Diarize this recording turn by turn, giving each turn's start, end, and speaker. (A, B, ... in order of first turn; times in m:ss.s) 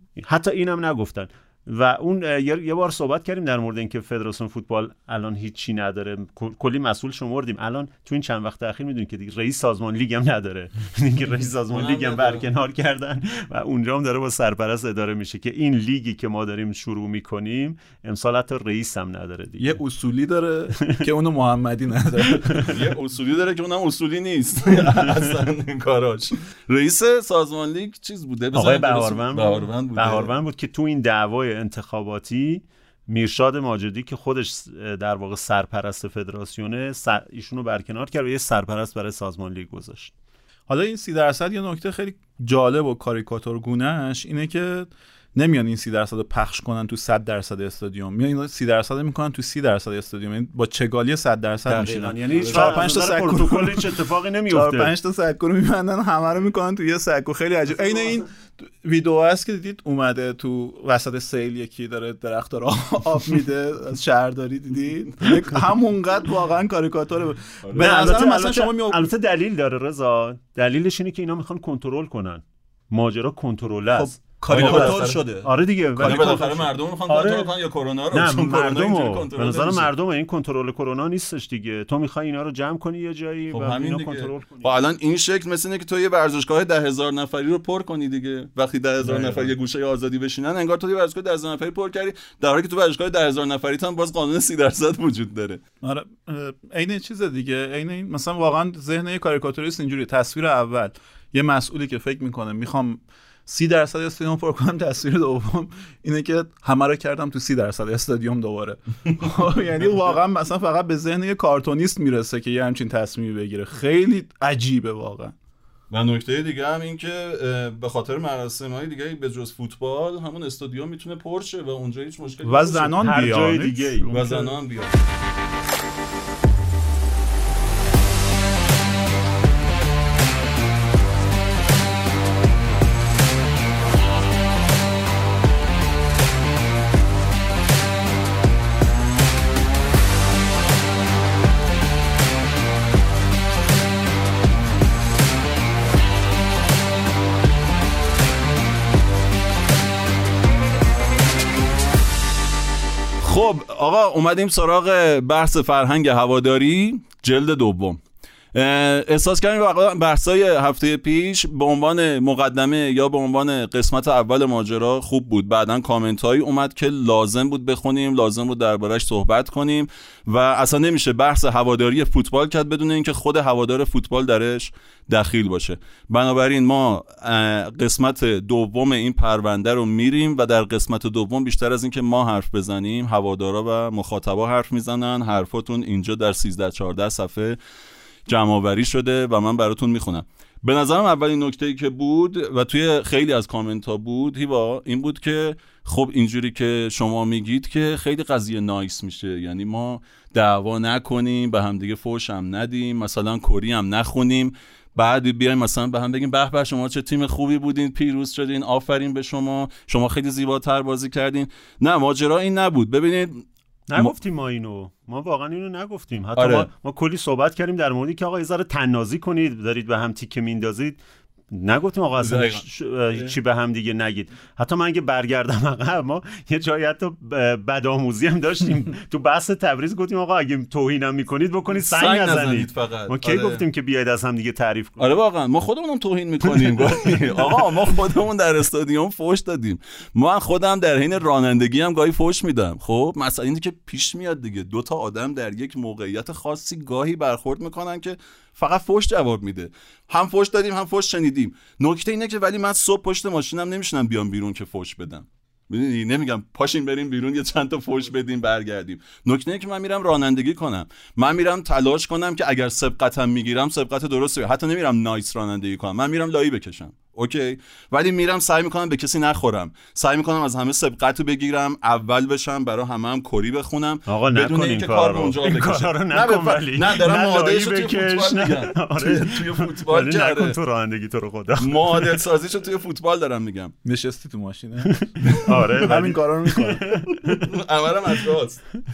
0:00.2-0:19.8 A
0:11.7-0:12.4 B
0:19.6-0:22.7 C
0:22.6-0:30.3 B
0:28.5-0:40.1 A
0:40.7-0:53.9 C
0:51.7-0:54.9 A
0:52.4-0:52.8 B
0:54.5-1:09.1 C
1:07.6-1:08.0 B
1:07.8-1:17.5 A
1:13.9-1:15.4 C
1:14.5-1:15.5 B
1:16.0-1:16.4 C
1:16.0-1:19.9 B
1:18.1-1:24.8 A
1:23.5-1:35.6 B
1:29.0-1:29.5 A
1:35.8-1:55.3 C
1:55.9-2:03.0 B
2:02.4-2:04.5 C
2:03.0-2:04.1 A
2:04.1-2:05.0 B
2:33.2-2:38.0 B
2:38.5-3:07.6 B
3:08.3-3:34.1 B
3:33.9-3:41.0 A
3:36.4-3:36.7 B
3:41.5-3:55.1 A
3:42.2-3:43.3 B
3:51.9-3:53.6 B
3:55.0-4:40.6 B
4:34.1-4:42.2 A
4:41.6-4:43.7 B
4:43.8-4:45.1 C
4:44.8-4:47.5 A
4:45.8-4:46.8 C
4:47.4-4:48.6 B